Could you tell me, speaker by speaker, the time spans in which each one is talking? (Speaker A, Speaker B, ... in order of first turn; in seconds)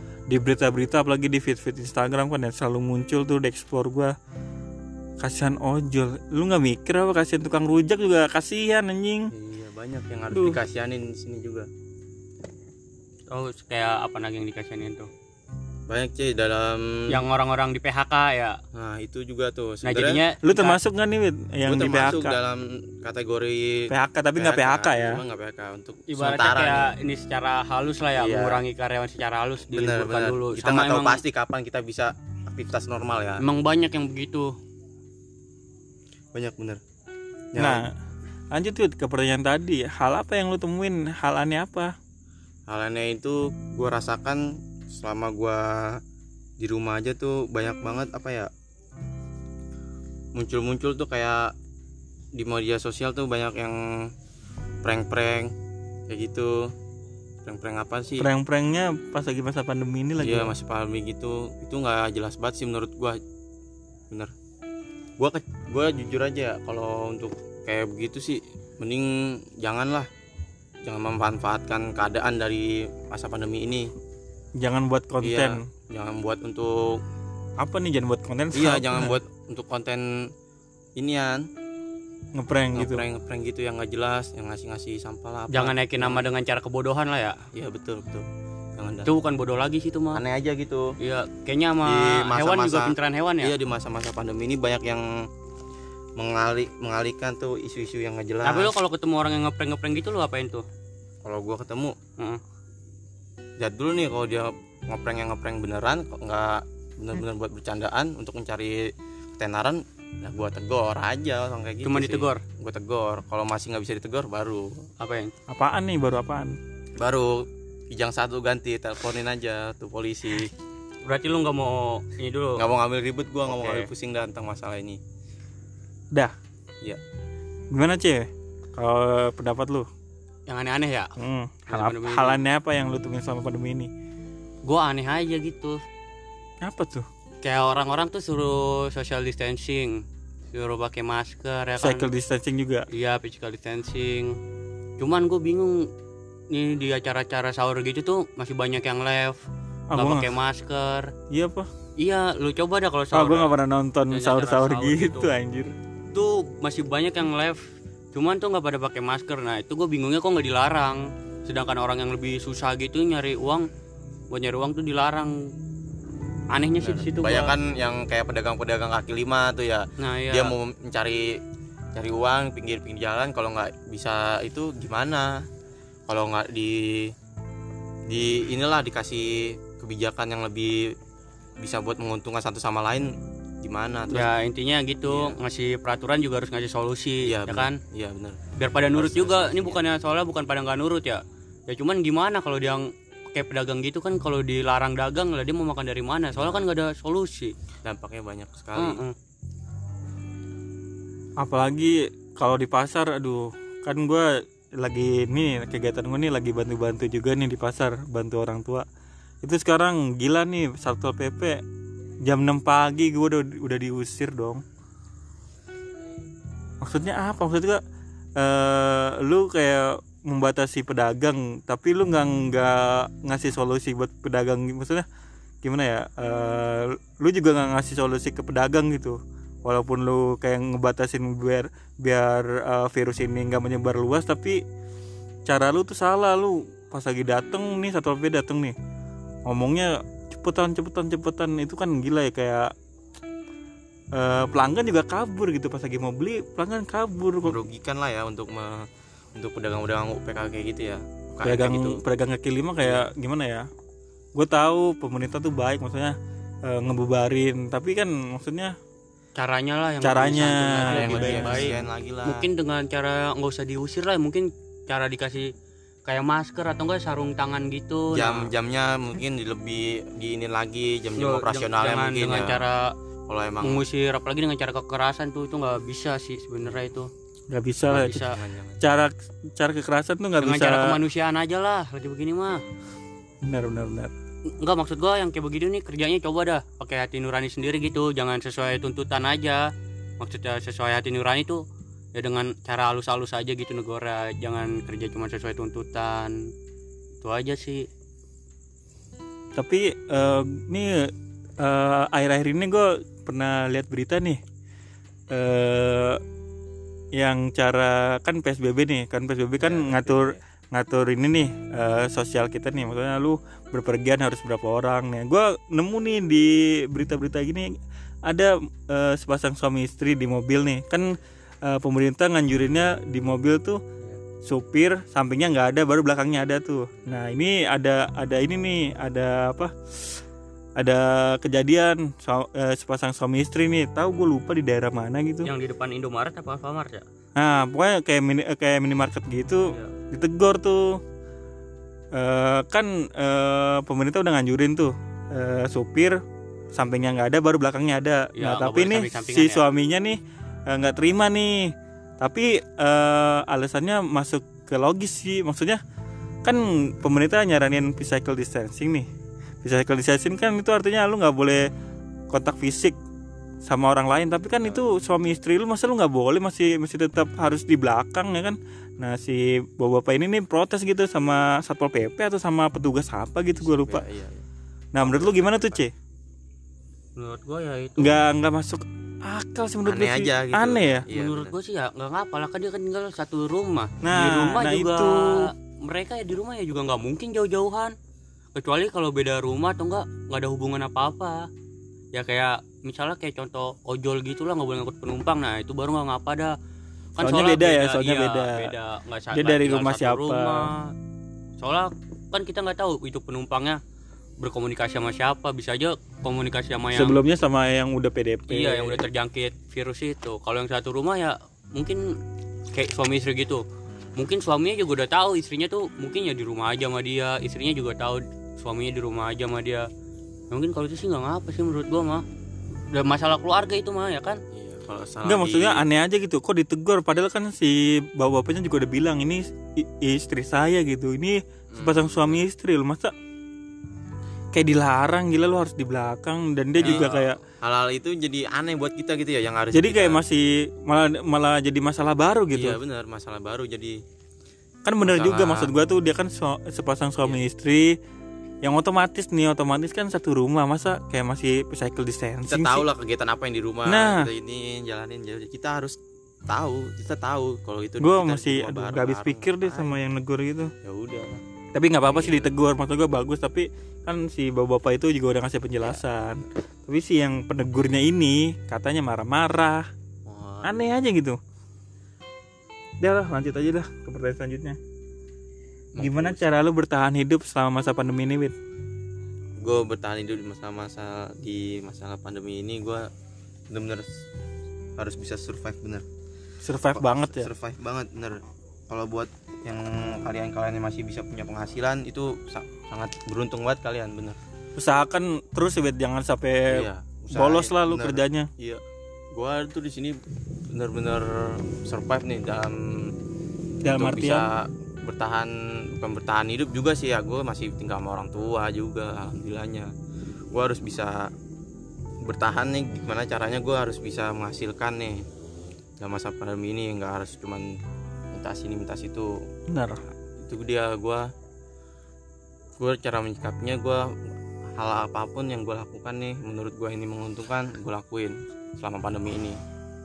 Speaker A: 0.3-4.1, 5.2-9.3, 10.3-10.6, 20.4-22.4, 23.9-25.2, 37.6-37.9, 38.5-41.9, 58.2-60.5, 74.6-75.6, 77.6-79.2, 82.3-83.0, 115.5-116.6, 127.7-129.9, 131.2-133.9, 136.6-137.1, 141.8-142.8, 149.9-150.3, 151.3-151.7, 153.1-155.8, 201.4-208.8, 209.4-211.6, 212.2-214.6, 216.8-217.8, 218.4-225.0, 225.6-234.6, 235.5-238.7, 239.5-242.7, 244.1-247.6, 251.4-253.7, 254.3-258.8, 260.0-261.8, 277.5-278.2, 278.8-281.0, 283.4-284.1, 299.5-304.4, 305.3-306.2, 307.1-317.7, 318.2-323.8, 324.4-330.2, 330.8-335.5, 337.4-341.0, 342.1-346.2, 346.7-355.8, 356.4-359.1, 359.6-361.6, 362.3-363.0, 363.6-374.0, 374.9-375.9, 378.0-381.1, 384.0-385.5, 397.2-398.7, 399.3-400.7, 406.9-409.0, 425.2-433.1, 434.5-437.4, 439.7-442.8, 444.8-448.0, 448.6-452.9, 453.9-454.3, 458.0-460.7, 461.7-469.9, 470.6-471.4, 473.0-474.8, 476.0-478.5, 486.6-487.5, 494.8-498.5, 503.8-504.5, 519.7-520.0
Speaker B: 9.3-11.7, 15.9-17.2, 18.7-20.2, 21.6-26.9, 28.1-28.6, 29.7-33.4, 36.3-36.8, 37.5-37.8, 42.7-46.0, 46.6-48.5, 50.3-51.5, 52.3-54.1, 54.8-55.5, 56.1-56.7, 57.4-58.3, 60.2-63.2, 65.2-70.1, 70.8-73.9, 75.2-77.0, 78.5-80.3, 81.0-81.5, 82.7-86.2, 87.5-88.2, 88.8-89.1, 90.1-90.9, 91.8-95.3, 96.2-98.7, 101.2-102.0, 103.6-114.9, 117.0-120.5, 122.6-125.0, 166.8-171.4, 171.9-175.5, 176.1-177.1, 178.1-180.9, 181.6-184.3, 185.1-185.4, 187.2-188.4, 188.9-189.8, 196.3-196.7, 197.8-199.0, 247.4-252.0, 252.8-253.1, 260.8-262.4, 268.1-272.6, 273.3-273.8, 278.1-278.8, 309.6-310.4, 373.5-374.4, 375.0-375.8, 379.9-381.5, 424.5-425.8, 431.7-432.4, 436.8-440.2, 442.5-444.0, 445.0-445.7, 452.5-459.9, 460.8-461.4, 462.1-462.5, 470.2-470.9, 475.9-476.6, 479.6-483.1, 483.7-484.1, 485.0-486.0, 486.9-494.4, 496.7-498.8, 499.3-500.2, 500.7-503.1, 504.0-509.9, 510.5-511.3, 512.2-515.2, 516.0-517.7, 518.3-519.3, 520.4-521.3, 522.8-524.1, 524.8-529.6
Speaker C: 13.3-15.1, 17.1-18.6, 19.8-20.8, 26.1-31.2, 33.4-34.5, 85.5-87.4, 89.0-90.2, 91.0-93.5, 98.4-100.6, 111.8-112.4, 115.0-115.3, 121.1-122.6, 123.5-123.9, 130.5-131.1, 131.7-132.4, 134.6-135.8, 137.4-142.1, 142.9-144.4, 145.0-145.9, 146.5-149.4, 149.9-151.1, 152.0-153.5, 154.1-155.3, 156.1-157.6, 158.1-163.7, 164.3-165.5, 166.5-167.5, 170.0-170.5, 184.1-187.8, 188.6-197.5, 198.8-199.1, 259.4-265.5, 266.1-268.5, 271.2-272.9, 273.6-277.1, 277.9-278.4, 280.4-282.6, 284.6-289.7, 290.2-291.6, 292.1-296.5, 297.2-297.9, 335.4-337.0, 339.7-339.9, 348.3-349.6, 377.2-378.1, 381.1-387.9, 388.5-391.5, 392.1-396.5, 397.2-400.9, 401.6-403.8, 404.4-407.2, 408.5-412.0, 412.7-413.6, 414.2-419.9, 420.5-422.2, 422.9-424.4, 436.8-437.3